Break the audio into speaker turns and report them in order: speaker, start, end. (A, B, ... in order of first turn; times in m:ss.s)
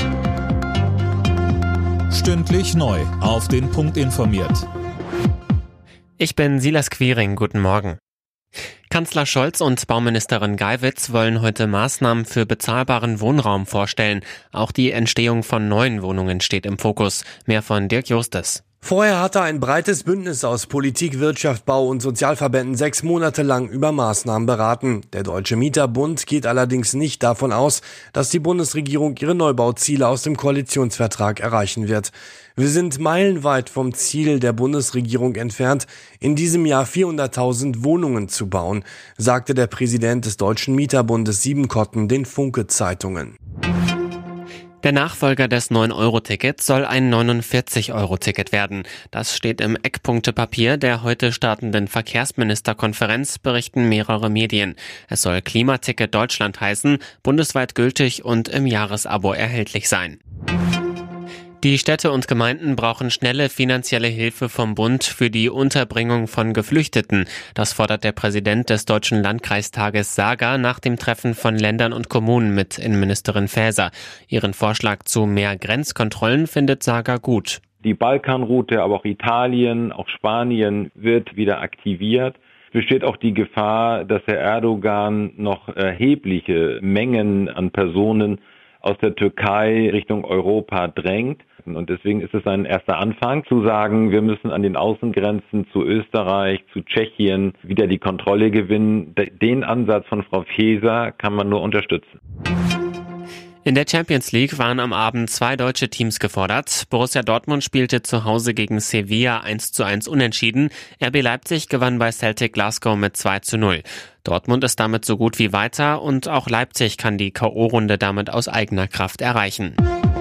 0:02.1-0:04.7 A
0:06.2-0:08.0 B
0:08.9-0:18.6 B
0:18.8-0:43.4 C
0:44.8-1:00.2 B
1:01.6-1:17.6 B
1:17.8-1:42.2 D
1:43.6-1:59.8 B